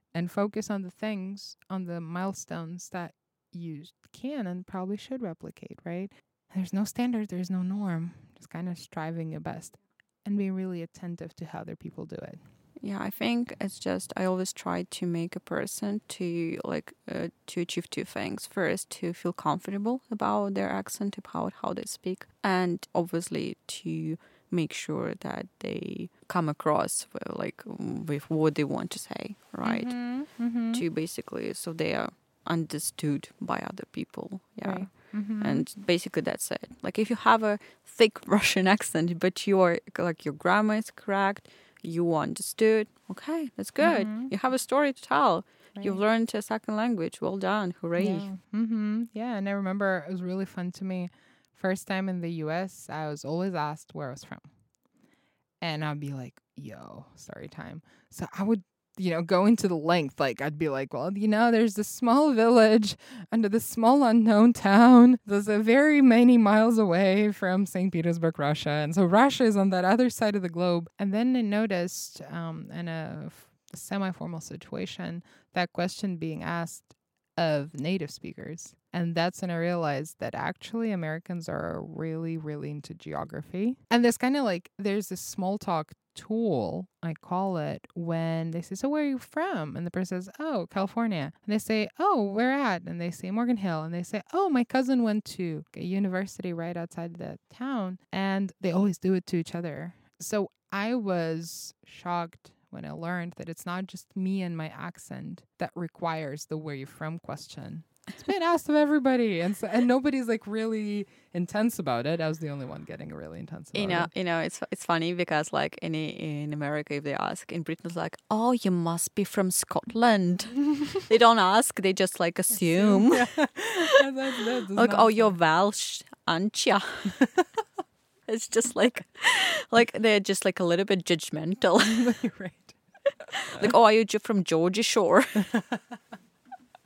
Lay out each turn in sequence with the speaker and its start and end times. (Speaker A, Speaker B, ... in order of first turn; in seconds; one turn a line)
Speaker A: 0.1-12.4
Speaker B: 12.8-48.3
Speaker A: 29.6-30.8
Speaker A: 34.6-35.6
Speaker A: 43.8-44.3
Speaker A: 45.8-46.0
Speaker A: 48.0-54.5
Speaker A: 55.6-114.1
Speaker B: 113.7-124.0
Speaker A: 122.5-125.4
Speaker B: 124.8-127.2
Speaker A: 127.2-127.5
Speaker B: 128.3-132.1
Speaker A: 131.8-132.8
Speaker B: 133.5-135.5
Speaker A: 135.5-135.9